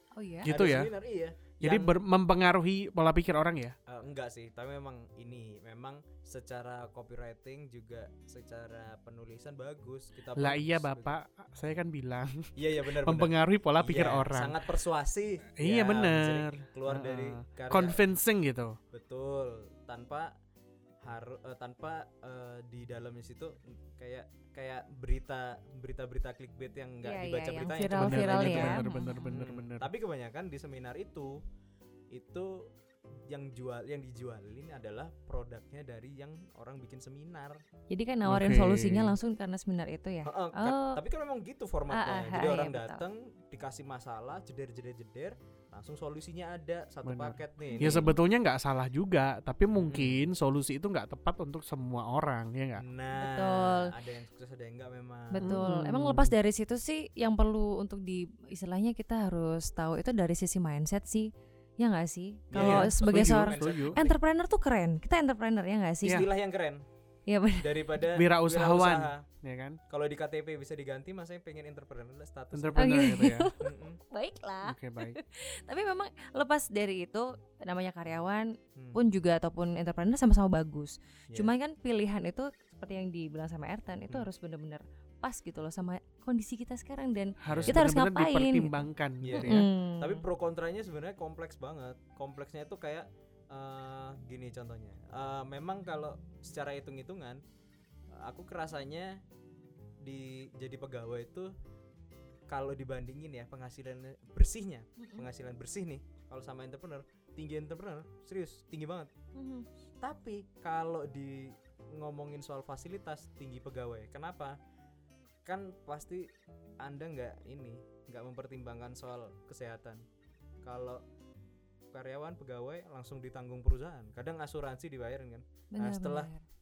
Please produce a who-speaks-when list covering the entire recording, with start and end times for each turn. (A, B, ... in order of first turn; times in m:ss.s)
0:00.2-0:00.5 A
0:00.4-0:00.9 B
0:00.4-0:02.0 C
0:01.6-0:03.7 B
0:03.9-0:11.1 C
0:10.4-0:14.6 B
0:12.6-0:18.0 C
0:15.6-0:18.8 B
0:18.9-0:20.3 C
0:21.0-0:31.3 C
0:27.0-0:29.2 A
0:27.6-0:29.9 B
0:32.1-0:32.5 C
0:33.3-0:37.6 C
0:37.9-0:41.0 A
0:38.2-0:39.2 B
0:40.2-0:48.1 C
0:41.9-0:43.0 A
0:47.0-0:52.8 B
0:47.7-0:48.1 A
0:49.8-0:50.2 C
0:52.8-0:55.6 C
0:53.1-0:53.9 A
0:55.3-1:06.2 A
0:55.4-0:56.3 B
1:02.5-1:04.2 C
1:02.5-1:04.0 B
1:06.0-1:06.8 C
1:07.3-1:07.7 A
1:07.6-1:09.2 C
1:08.1-1:09.8 B
1:09.9-1:13.0 C
1:12.5-1:13.5 B
1:12.8-1:28.8 A
1:13.6-1:14.0 C
1:14.6-1:15.2 B
1:27.4-1:29.7 B
1:27.5-1:27.8 C
1:29.2-1:37.4 C
1:29.4-1:30.2 A
1:38.2-1:39.2 C
1:40.0-1:41.5 C
1:42.5-1:49.1 C
1:45.0-1:45.3 A
1:49.3-1:49.6 A
1:50.0-1:54.6 C
1:55.4-1:56.3 C
1:56.8-2:00.0 C
2:00.6-2:01.0 C
2:01.9-2:06.3 C
2:05.7-2:06.4 A